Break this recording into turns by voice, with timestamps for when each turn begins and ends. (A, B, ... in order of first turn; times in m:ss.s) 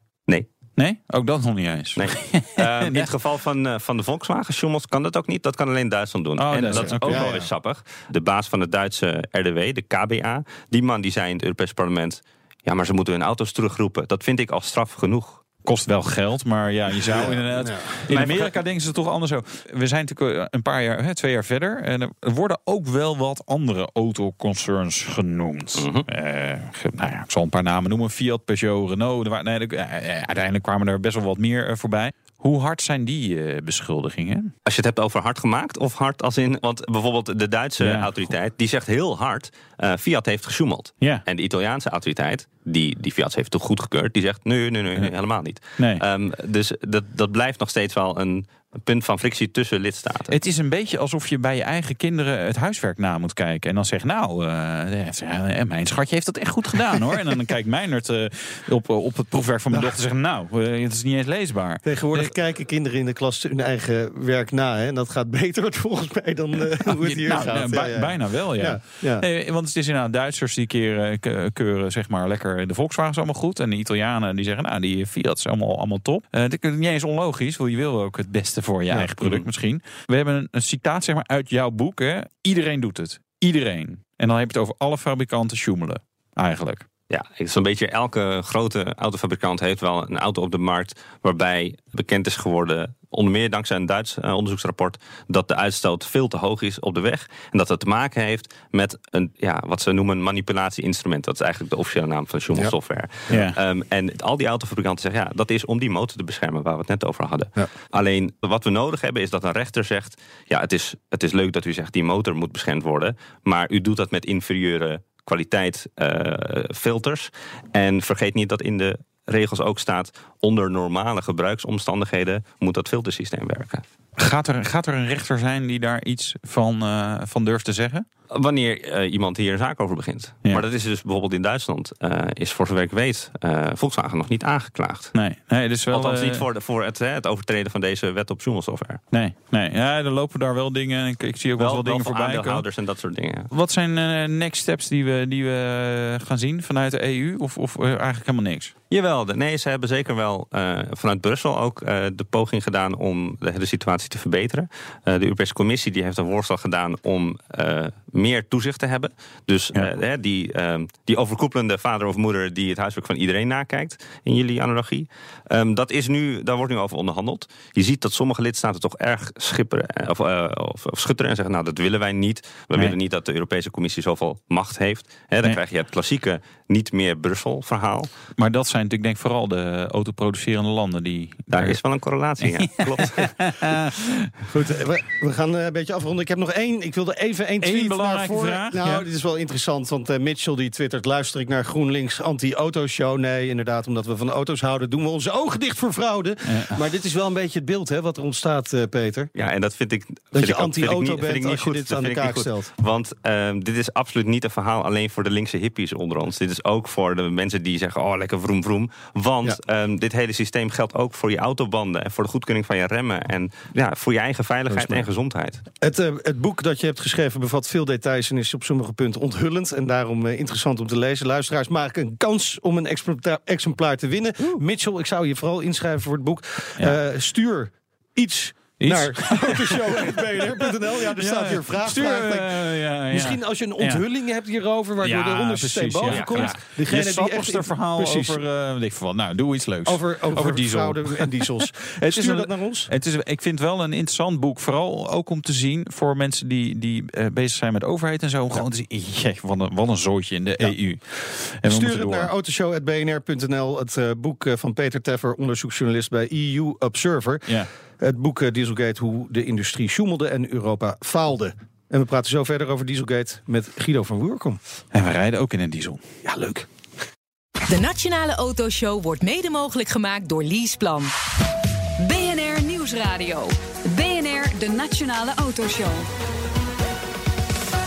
0:00.8-0:03.1 A
0:02.0-0:15.4 B
0:06.4-0:07.3 A
0:06.7-0:07.5 C
0:15.6-0:34.5 A
0:17.0-0:18.5 C
0:18.1-0:18.4 B
0:25.8-0:26.1 B
0:34.6-0:50.4 B
0:37.8-0:38.2 A
0:45.8-0:46.0 A
0:50.3-1:02.3 A
1:01.8-1:09.3 C
1:07.0-1:26.9 A
1:19.2-1:19.5 B
1:27.1-2:03.8 B
1:43.3-1:43.6 A
2:04.2-2:08.1 A
2:08.3-2:15.1 B
2:15.1-2:16.4 A
2:15.9-2:19.0 B
2:19.1-2:22.6 A
2:21.6-2:23.5 B
2:23.5-2:28.7 A
2:28.9-2:58.1 B
2:58.4-3:01.8 A
3:01.5-3:03.3 B
3:02.4-3:04.3 A
3:04.5-3:19.3 C
3:07.6-3:09.1 A
3:16.5-3:16.8 A
3:19.4-3:35.6 B
3:20.3-3:22.7 C
3:34.8-3:35.0 C
3:35.8-3:58.4 C
3:48.8-3:54.0 A
3:55.0-4:01.4 A
3:56.1-3:56.5 B
3:59.9-4:02.9 C
4:02.0-4:12.3 A
4:11.6-4:24.6 C
4:24.9-4:26.0 A
4:26.2-4:26.7 C
4:27.7-4:31.1 D
4:32.0-4:36.1 E